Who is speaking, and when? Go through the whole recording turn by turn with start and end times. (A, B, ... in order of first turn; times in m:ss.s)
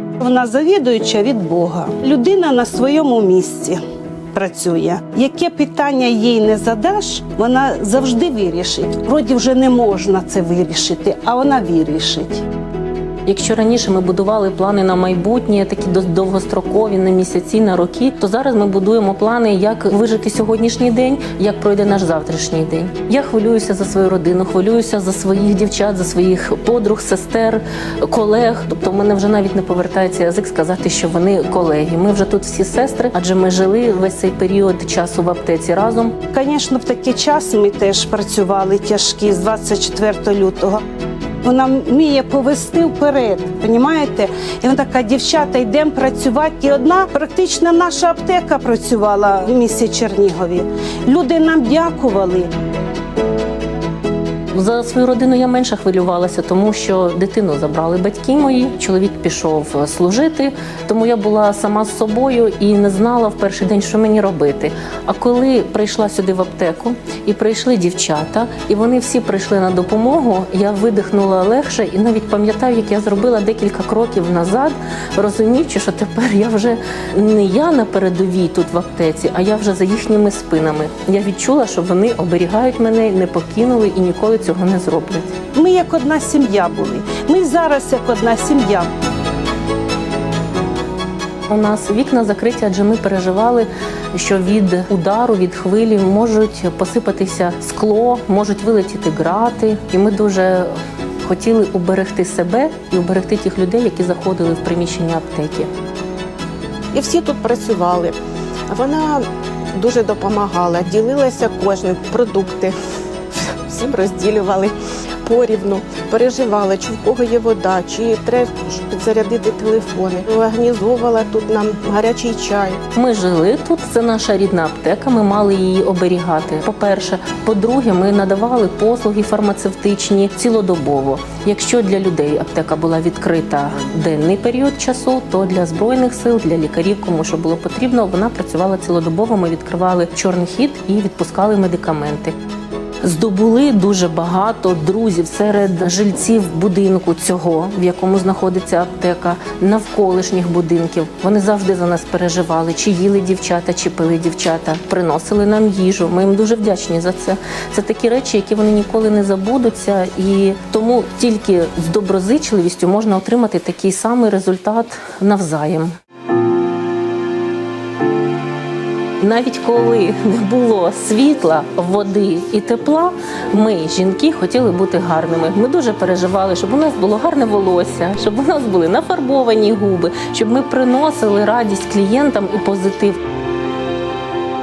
0:00.2-0:03.8 A
0:04.3-0:12.4 A
0:13.2-0:36.2 B
0:36.3-0:40.8 A
0:41.4-0:52.5 A
0:54.5-1:25.3 B
1:25.5-1:28.9 A
1:31.5-1:40.7 B
1:41.2-1:45.7 B
1:46.9-1:48.2 C
1:48.7-1:52.8 C
1:53.3-1:54.7 C
1:55.2-2:02.8 C
2:02.9-2:22.3 B
2:23.0-2:45.9 B
2:49.2-3:03.2 B